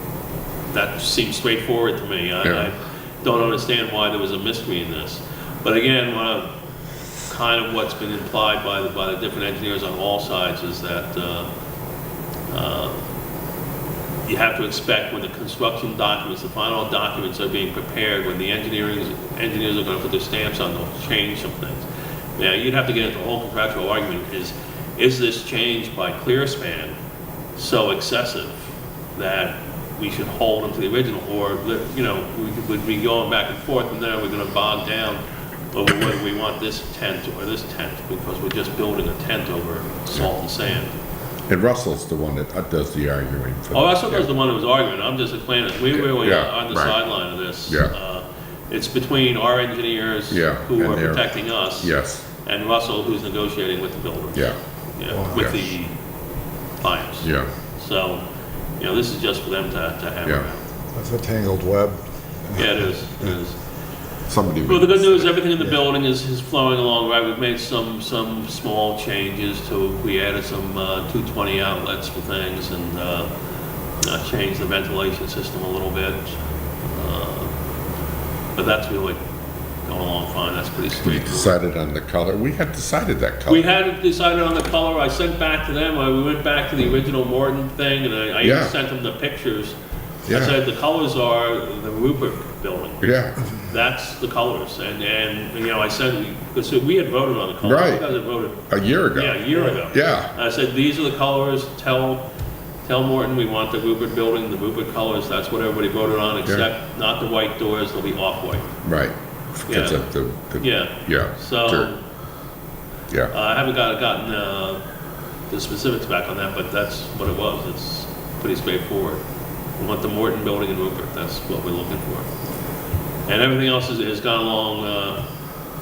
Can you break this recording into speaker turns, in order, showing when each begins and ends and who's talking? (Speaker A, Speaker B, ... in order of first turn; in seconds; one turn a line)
Speaker A: 0.7-6.5
Speaker A: 7.3-11.5
Speaker A: 12.5-13.0
Speaker A: 14.2-26.9
Speaker A: 27.6-35.2
Speaker A: 35.7-41.0
Speaker B: 41.5-44.3
Speaker A: 43.7-51.9
Speaker B: 45.9-47.9
Speaker B: 50.3-52.2
Speaker A: 52.4-55.9
Speaker C: 55.1-55.6
Speaker A: 56.8-58.2
Speaker B: 57.2-57.5
Speaker A: 58.8-60.6
Speaker C: 60.9-62.0
Speaker C: 62.5-63.3
Speaker A: 62.5-63.6
Speaker B: 64.3-65.3
Speaker A: 64.7-73.3
Speaker A: 74.0-76.3
Speaker A: 76.9-77.5
Speaker A: 78.5-79.2
Speaker A: 79.8-81.5
Speaker B: 81.0-83.7
Speaker A: 83.5-89.7
Speaker B: 88.4-88.7
Speaker B: 90.3-90.5
Speaker A: 90.3-98.6
Speaker B: 93.0-93.4
Speaker B: 97.6-98.1
Speaker B: 98.7-100.3
Speaker A: 99.1-102.2
Speaker A: 102.8-108.7
Speaker B: 108.8-111.9
Speaker A: 109.7-110.0
Speaker A: 110.6-112.0
Speaker A: 113.3-114.8
Speaker A: 115.5-119.2
Speaker A: 119.8-122.3
Speaker A: 123.3-125.2